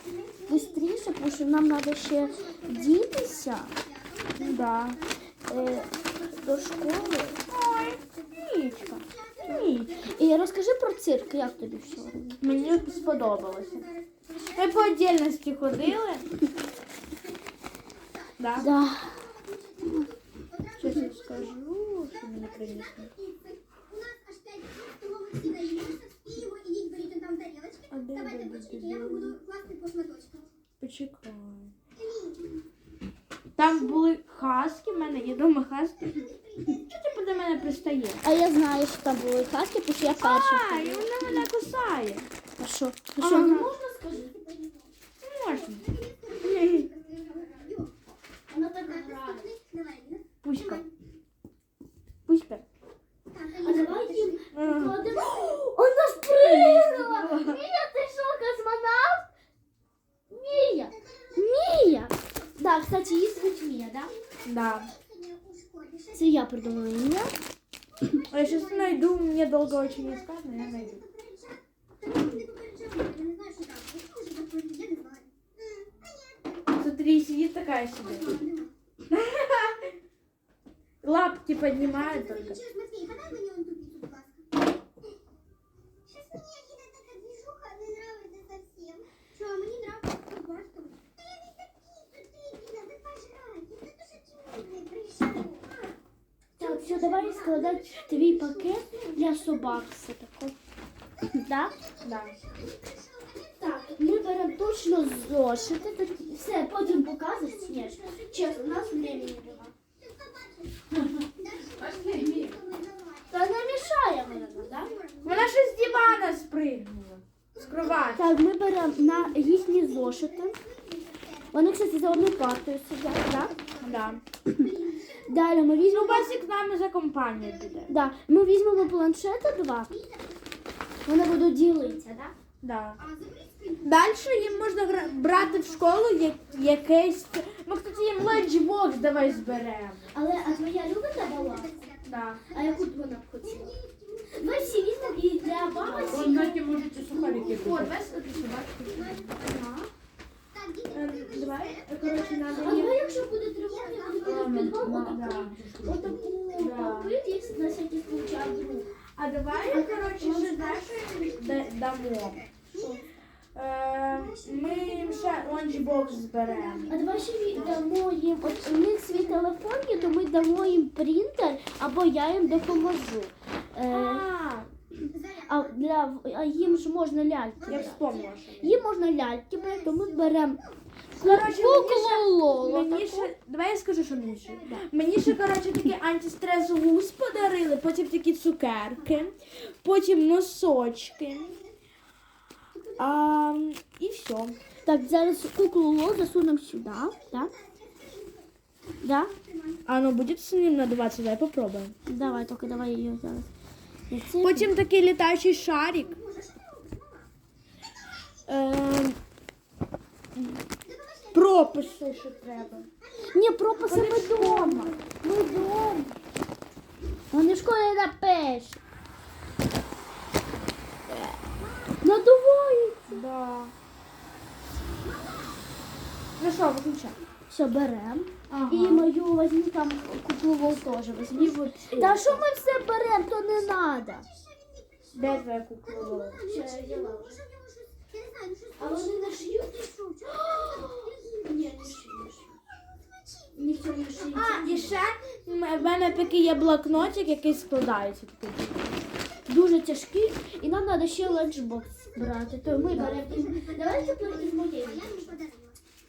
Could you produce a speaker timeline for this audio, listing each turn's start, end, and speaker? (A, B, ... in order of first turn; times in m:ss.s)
0:00.5-0:03.7 A
0:04.1-0:04.4 B
0:04.4-0:05.0 C
0:05.5-0:07.5 A
0:07.4-0:10.0 C
0:09.0-0:09.4 B
0:09.9-0:12.4 A
0:12.4-0:13.9 C
0:14.4-0:16.3 C
0:18.4-0:18.7 C
0:18.5-0:19.4 A
0:19.9-0:20.6 B
0:20.8-0:23.1 C
0:23.3-0:30.4 B
0:27.9-0:29.4 C
0:30.8-0:31.7 C
0:33.6-0:36.2 C
0:36.7-0:38.2 C
0:38.2-0:41.5 A
0:40.0-0:42.3 C
0:42.6-0:44.6 A
0:43.2-0:43.7 C
0:45.2-0:46.9 C
0:45.9-0:47.9 B
0:48.5-0:49.6 A
0:49.1-0:50.2 B
0:50.4-0:50.9 C
0:52.3-0:52.6 C
0:53.5-0:59.3 A
0:54.5-0:55.6 C
0:56.2-0:57.6 C
1:00.3-1:04.1 A
1:04.4-1:04.9 C
1:05.3-1:05.9 B
1:06.1-1:07.3 A
1:08.3-1:11.0 C
1:11.2-1:11.6 B
1:12.3-1:15.3 B
1:16.7-1:18.4 C
1:18.4-1:18.6 B
1:19.1-1:19.9 C
1:21.0-1:22.6 C
1:22.7-1:24.2 B
1:26.1-1:30.9 B
1:32.0-1:35.7 B
1:36.6-1:40.6 A
1:41.3-1:41.7 A
1:42.0-1:42.4 C
1:43.6-1:49.7 A
1:50.9-1:52.6 C
1:51.4-1:53.1 B
1:53.3-1:55.0 A
1:55.0-1:55.4 B
1:55.2-1:58.3 C
1:58.2-2:00.6 A
2:00.9-2:01.2 B
2:01.5-2:03.6 A
2:03.8-2:04.2 C
2:04.5-2:06.4 A
2:05.9-2:07.9 C
2:07.9-2:10.0 A
2:11.1-2:12.3 A
2:12.6-2:13.0 C
2:13.2-2:13.8 B
2:13.8-2:20.1 C
2:20.1-2:21.8 A
2:21.5-2:21.9 B
2:22.0-2:22.4 C
2:22.5-2:23.8 A
2:23.9-2:24.4 B
2:24.3-2:27.8 A
2:25.8-2:29.2 C
2:25.8-2:28.0 B
2:29.2-2:29.9 A
2:30.6-2:31.0 B
2:30.9-2:33.0 C
2:31.6-2:32.4 B
2:32.5-2:38.9 A
2:34.2-2:37.2 C
2:34.2-2:35.0 B
2:39.2-2:42.5 C
2:39.7-2:40.8 A
2:43.6-2:47.0 C
2:46.9-2:54.3 A
2:47.5-2:47.8 C
2:53.9-2:54.7 C
2:55.4-2:58.1 A
2:57.7-2:58.8 C
2:58.6-3:00.6 A
3:01.2-3:03.3 A
3:01.2-3:11.6 C
3:12.9-3:14.6 C
3:14.8-3:17.5 A
3:19.0-3:19.3 A
3:19.8-3:22.0 C
3:22.1-3:23.5 A
3:24.1-3:24.7 A
3:24.4-3:26.2 C
3:26.4-3:27.1 B
3:28.5-3:29.2 C
3:30.4-3:30.6 C
3:30.9-3:31.3 B
3:31.3-3:32.9 C
3:33.2-3:36.2 A
3:33.9-3:34.9 C
3:37.3-3:38.8 A
3:42.0-3:43.2 A
3:43.1-3:43.7 C
3:46.4-3:47.2 C
3:47.5-3:54.2 A
3:48.5-3:49.1 C
3:51.3-3:52.5 C
3:55.1-3:56.5 C
3:56.1-3:57.4 A
3:56.5-3:59.1 B
3:58.8-4:02.5 A
4:00.4-4:01.0 B
4:03.6-4:05.0 A
4:04.3-4:09.0 C
4:09.5-4:15.4 A
4:13.3-4:13.7 B
4:14.6-4:15.7 B